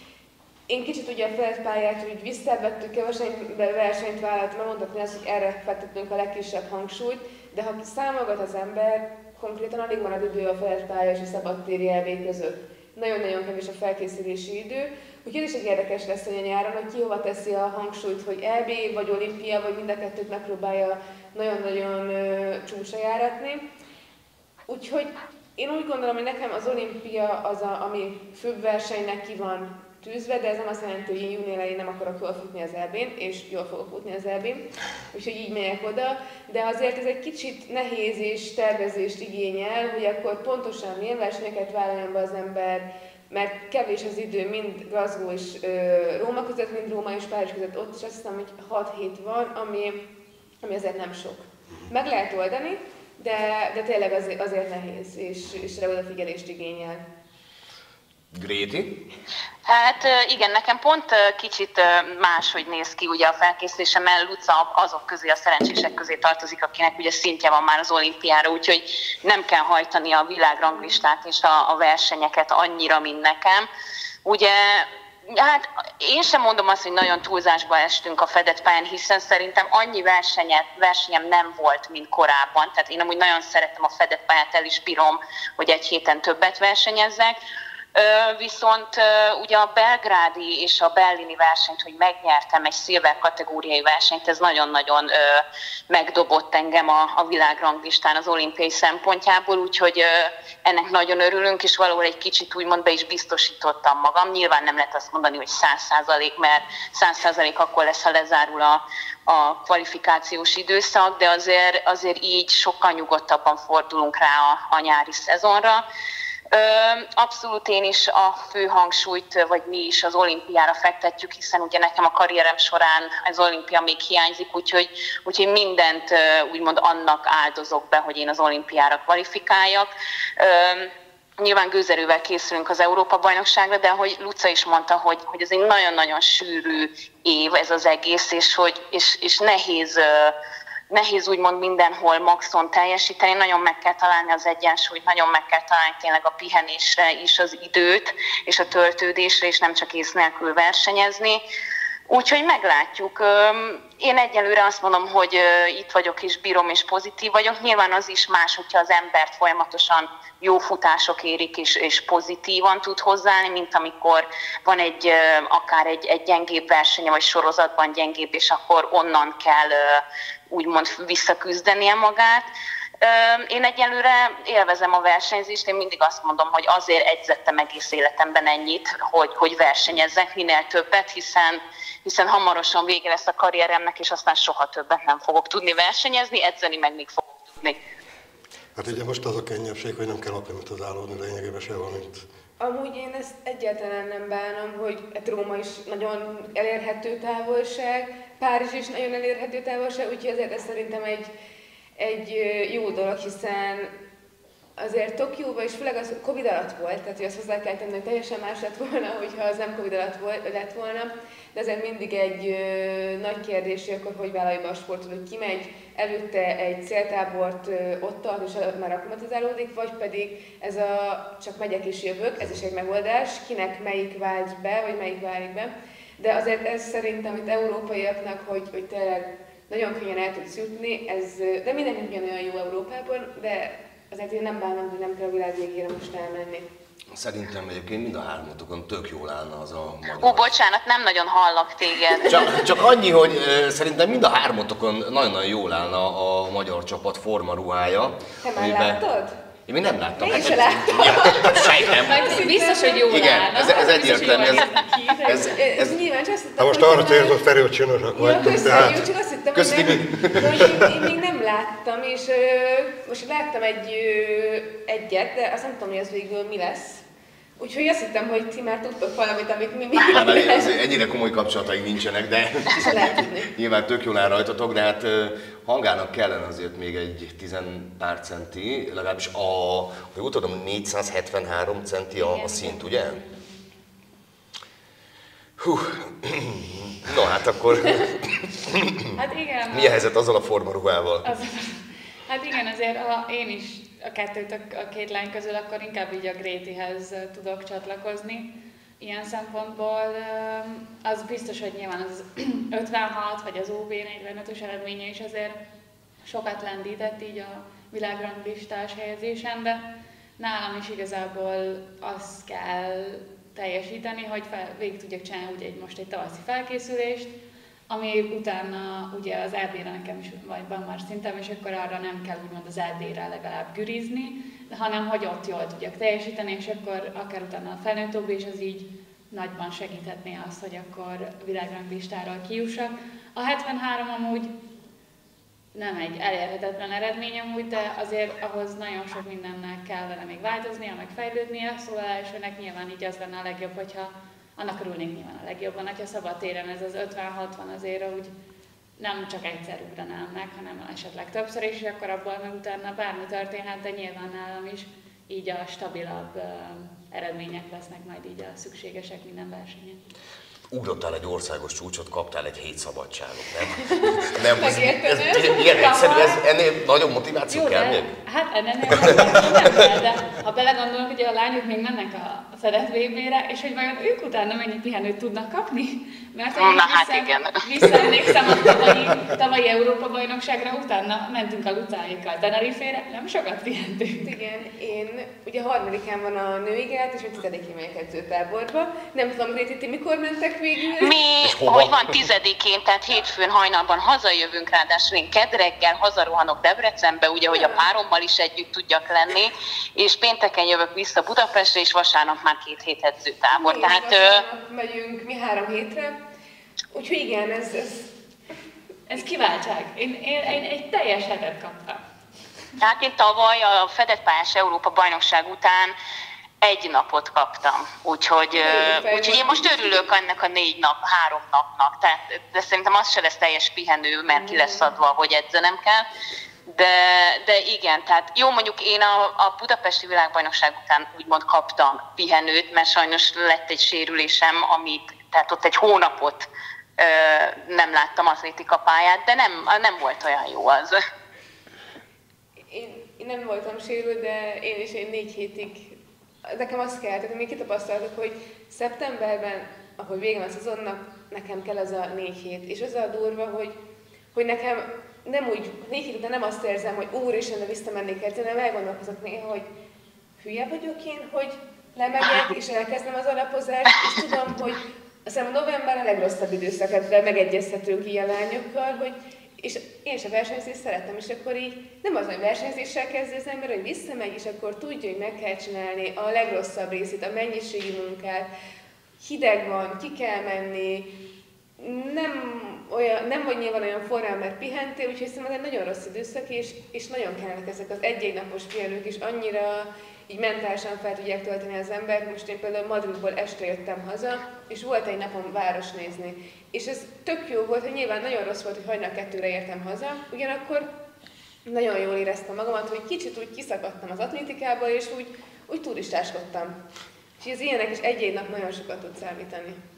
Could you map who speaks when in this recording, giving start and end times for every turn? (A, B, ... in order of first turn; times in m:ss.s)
0:00.7-0:23.6 A
0:24.7-0:50.0 A
0:50.6-0:57.0 A
0:58.3-0:59.0 B
0:59.6-1:13.7 C
1:14.2-1:27.4 C
1:27.9-1:55.8 C
1:56.5-2:20.3 C
2:20.9-2:31.4 C
2:32.1-2:52.5 C
2:53.0-3:07.8 C
3:08.8-3:12.2 D
3:12.6-3:21.3 A
3:22.0-3:23.9 A
3:24.8-3:56.6 A
3:57.1-4:00.5 B
4:00.2-4:02.5 C
4:02.2-4:09.0 B
4:08.4-4:09.4 A
4:09.6-4:14.7 B
4:10.2-4:13.0 A
4:12.0-4:15.6 E
4:15.2-4:16.0 B
4:15.3-4:17.4 A
4:16.6-4:19.0 D
4:18.1-4:27.0 A
4:19.5-4:20.9 B
4:27.6-4:30.8 A
4:30.0-4:43.2 B
4:32.8-4:33.5 A
4:42.2-4:43.8 E
4:45.6-4:49.1 B
4:49.2-4:50.0 E
4:49.7-4:51.3 B
4:51.2-5:05.6 E
5:06.2-5:09.8 E
5:10.4-5:17.3 E
5:17.9-5:34.5 E
5:35.7-5:48.3 E
5:49.0-6:00.0 E
6:00.7-6:08.1 B
6:04.4-6:06.0 A
6:05.6-6:06.4 E
6:07.5-6:24.3 E
6:08.9-6:09.8 B
6:16.6-6:18.1 C
6:24.2-6:31.2 A
6:31.0-6:44.4 C
6:31.4-6:32.1 B
6:37.5-6:37.8 A
6:43.5-6:46.2 A
6:46.9-6:48.1 A
6:49.1-6:52.0 E
6:52.8-6:56.0 C
6:56.6-7:06.1 C
6:58.5-6:59.7 A
7:04.3-7:04.8 A
7:06.7-7:21.0 C
7:22.7-7:33.7 A
7:34.3-7:39.6 A
7:40.4-7:58.5 A
7:59.2-8:01.1 A
8:01.8-8:20.9 A
8:21.6-8:26.8 A
8:27.4-8:29.8 A